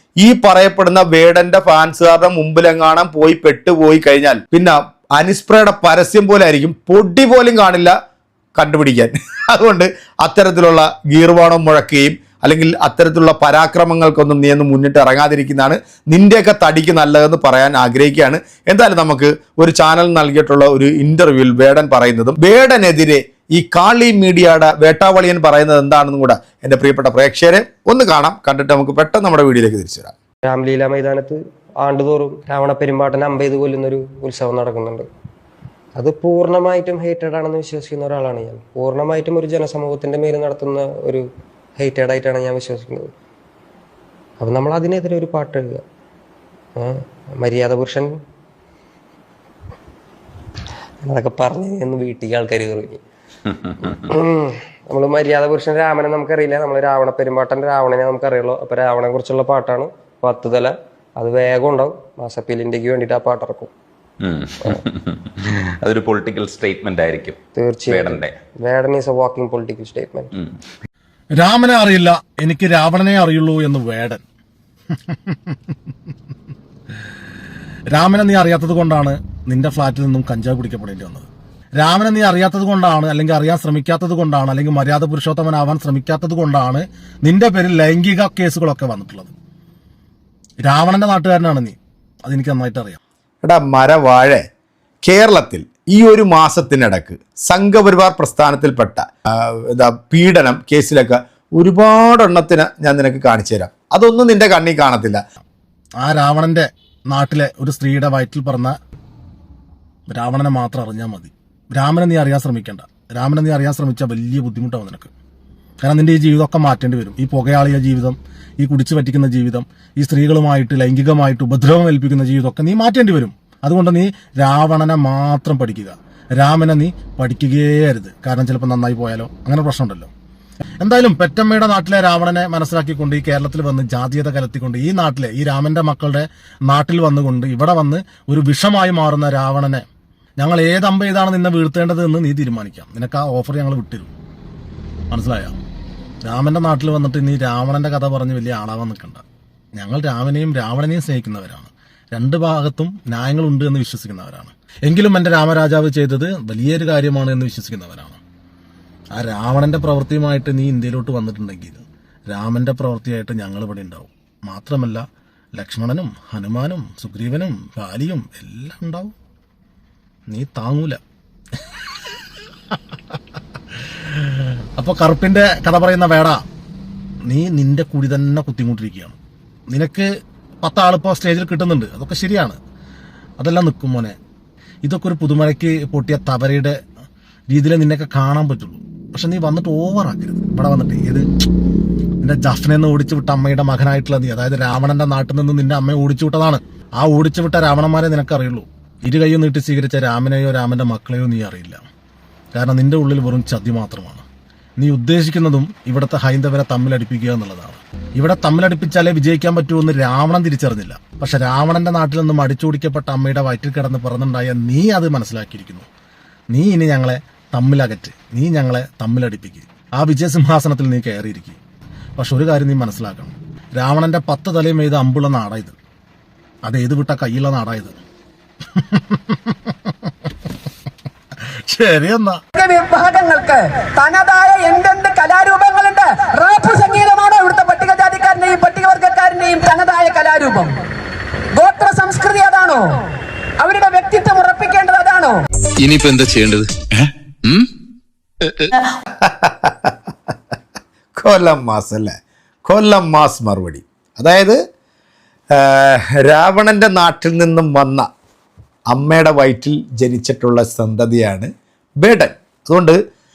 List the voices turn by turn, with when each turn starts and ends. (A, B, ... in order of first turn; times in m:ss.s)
0:00.2-0:07.9 A
0:08.5-0:30.1 A
0:30.4-0:35.0 B
0:36.0-0:41.2 B
0:41.8-0:43.1 B
0:44.4-0:45.8 B
0:46.8-0:48.1 B
0:51.0-0:53.0 B
0:53.8-1:03.7 B
1:04.2-1:08.3 C
1:07.6-1:10.3 B
1:11.4-1:14.2 D
1:15.1-1:15.5 D
1:17.9-1:29.3 D
1:30.6-1:33.0 D
1:33.4-1:34.4 A
1:35.0-1:45.2 A
1:46.0-1:48.8 D
1:50.1-1:55.1 D
1:55.8-2:10.1 D
2:10.8-2:19.8 D
2:20.4-2:24.1 D
2:25.1-2:25.6 D
2:26.2-2:29.2 D
2:29.8-2:38.2 D
2:39.1-2:45.0 D
2:45.5-2:49.1 D
2:50.3-2:51.0 D
2:54.0-2:56.4 D
2:57.3-2:59.2 D
2:59.7-3:00.1 D
3:00.6-3:02.6 D
3:03.4-3:04.2 D
3:04.8-3:06.8 D
3:07.5-3:11.2 D
3:12.2-3:21.8 D
3:22.5-3:24.2 D
3:24.8-3:35.9 D
3:36.5-3:41.6 D
3:42.2-3:45.8 D
3:46.6-3:48.0 D
3:48.8-3:49.9 D
3:51.7-3:52.4 D
3:52.6-4:00.8 E
4:01.5-4:03.0 E
4:03.6-4:05.4 E
4:05.8-4:07.7 F
4:08.4-4:08.7 F
4:09.2-4:09.9 A
4:11.2-4:14.6 A
4:15.5-4:18.1 A
4:18.9-4:21.5 A
4:22.0-4:23.0 A